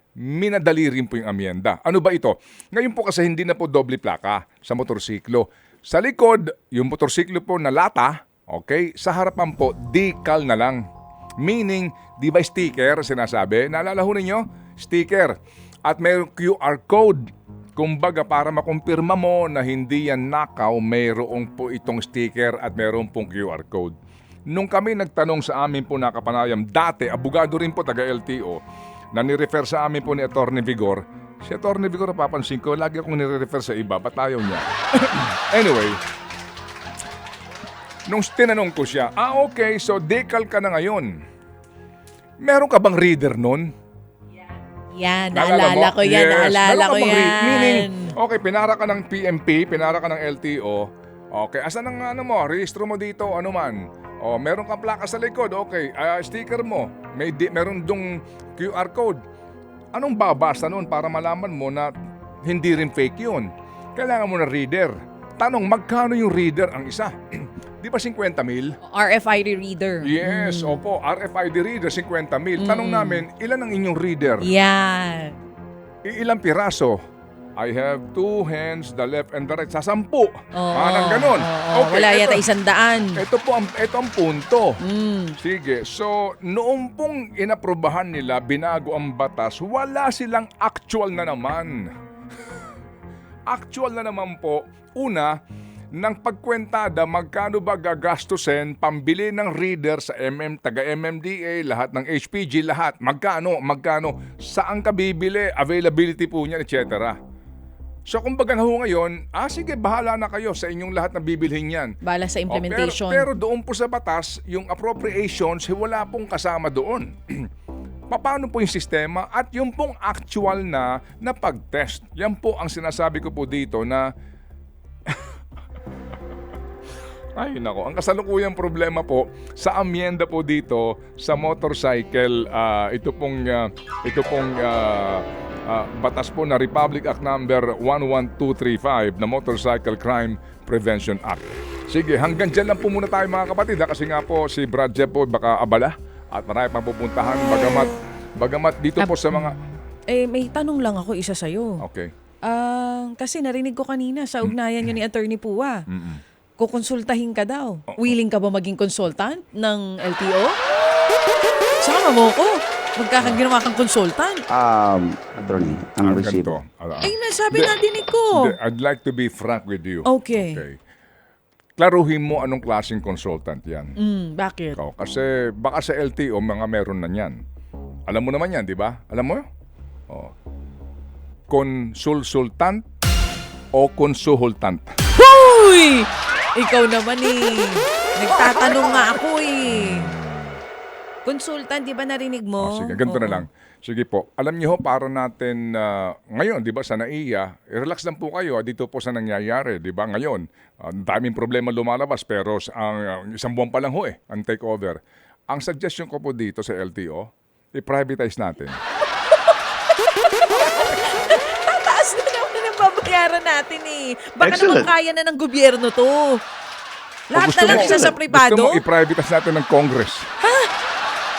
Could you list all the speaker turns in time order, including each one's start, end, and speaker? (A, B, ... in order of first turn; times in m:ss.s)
0:00.2-0:10.9 A
0:11.4-0:24.0 A
0:24.5-0:28.6 A
0:29.1-0:36.0 A
0:38.1-0:41.2 A
0:42.4-0:43.7 A
0:44.9-0:48.2 B
0:45.3-0:59.2 A
0:59.9-1:01.9 A
1:02.4-1:08.8 A
1:08.8-1:10.8 B
1:10.0-1:14.5 A
1:12.6-1:13.3 B
1:14.4-1:15.4 B
1:16.0-1:17.0 A
1:17.6-1:22.4 A
1:20.5-1:23.2 B
1:23.2-1:24.8 A
1:24.8-1:25.4 B
1:25.4-1:31.9 A
1:33.5-1:35.4 A
1:35.9-1:47.2 A
1:48.1-1:52.0 A
1:52.0-1:53.3 B
1:52.5-1:57.5 A
1:58.1-2:04.1 A
2:07.4-2:29.6 A
2:29.0-2:29.6 B
2:30.1-2:31.8 B
2:31.8-2:32.1 A
2:32.4-2:35.8 B
2:35.9-2:36.2 A
2:36.6-2:40.6 B
2:41.8-2:44.4 B
2:44.5-2:46.6 C
2:46.0-2:47.7 A
2:47.0-2:48.6 B
2:48.3-2:50.8 A
2:50.0-2:50.6 B
2:51.8-2:54.0 A
2:54.0-2:54.8 B
2:54.8-2:57.4 A
2:58.1-2:59.5 A
3:00.1-3:00.3 A
3:01.5-3:02.8 A
3:03.7-3:05.0 A
3:05.2-3:10.1 B
3:09.6-3:10.6 A
3:11.2-3:13.4 B
3:12.6-3:28.8 A
3:30.3-3:36.4 B
3:37.3-3:38.8 B
3:37.3-3:40.3 A
3:40.4-3:40.7 B